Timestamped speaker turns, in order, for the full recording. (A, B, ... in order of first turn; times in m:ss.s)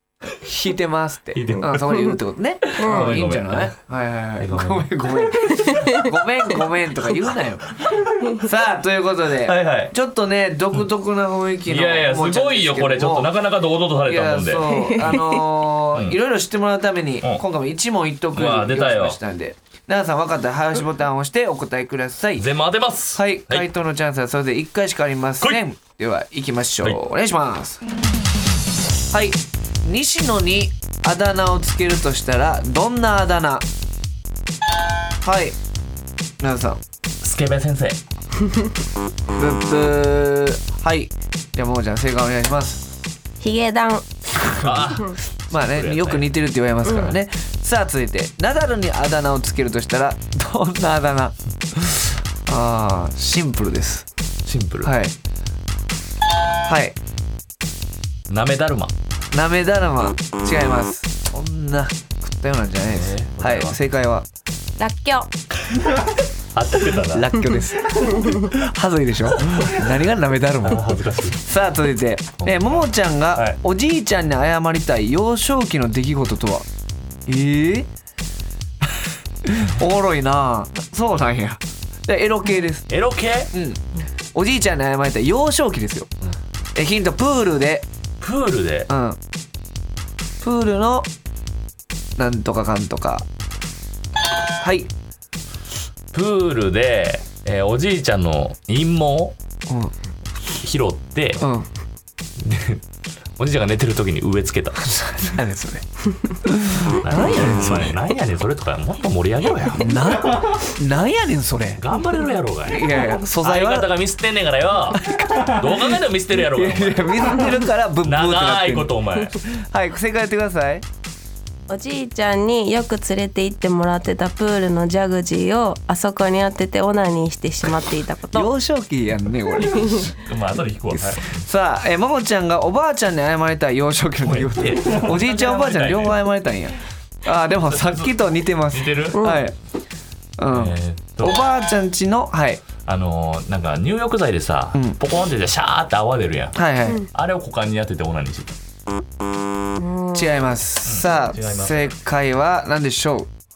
0:00.4-0:07.7 A
0:01.3-0:03.8 B
0:02.8-0:03.1 C
0:04.4-0:06.0 B
0:05.6-0:06.0 C
0:07.7-0:08.4 B
0:08.4-0:13.3 A
0:09.4-0:09.9 B
0:11.7-0:15.2 B
0:14.0-0:22.4 A
0:14.7-0:15.4 C
0:18.3-0:19.2 B
0:22.4-0:23.7 B
0:23.1-0:27.8 A
0:29.1-0:33.6 A
0:35.2-0:35.6 A
0:36.4-0:36.8 A
0:37.2-0:38.0 B
0:39.4-0:42.9 A
0:43.4-0:44.0 C
0:44.6-0:46.3 B
0:44.6-0:44.9 A
0:45.5-0:54.0 A
0:54.4-0:54.9 B
0:54.8-0:55.1 A
0:56.6-0:57.0 A
0:58.3-0:58.9 B
0:59.3-1:04.2 A
1:02.9-1:03.8 B
1:04.8-1:05.3 C
1:06.5-1:07.3 B
1:07.0-1:16.6 A
1:09.4-1:09.8 B
1:10.6-1:11.4 B
1:12.4-1:13.6 B
1:17.2-1:17.9 A
1:19.4-1:22.9 A
1:22.9-1:23.5 B
1:23.5-1:23.8 A
1:24.3-1:26.1 A
1:26.7-1:27.8 A
1:28.2-1:28.9 B
1:28.9-1:29.2 A
1:30.4-1:31.1 A
1:32.2-1:33.2 A
1:34.6-1:34.9 A
1:36.1-1:39.3 B
1:39.7-1:39.9 A
1:40.6-1:41.4 B
1:41.4-1:41.7 A
1:42.4-1:42.8 B
1:43.4-1:45.0 B
1:45.2-1:45.8 A
1:46.4-1:48.0 A
1:46.8-1:50.4 B
1:49.8-1:51.8 A
1:51.8-1:59.4 B
1:52.7-1:53.9 A
1:55.0-2:00.8 A
2:01.7-2:08.5 C
2:08.3-2:10.1 A
2:09.6-2:11.4 B
2:10.9-2:19.5 A
2:14.2-2:16.2 B
2:17.7-2:18.1 B
2:18.7-2:19.2 B
2:19.1-2:19.4 C
2:20.4-2:22.6 A
2:20.5-2:21.4 B
2:22.8-2:28.6 B
2:26.6-2:27.0 A
2:29.8-2:30.4 C
2:30.1-2:33.3 A
2:30.8-2:31.9 B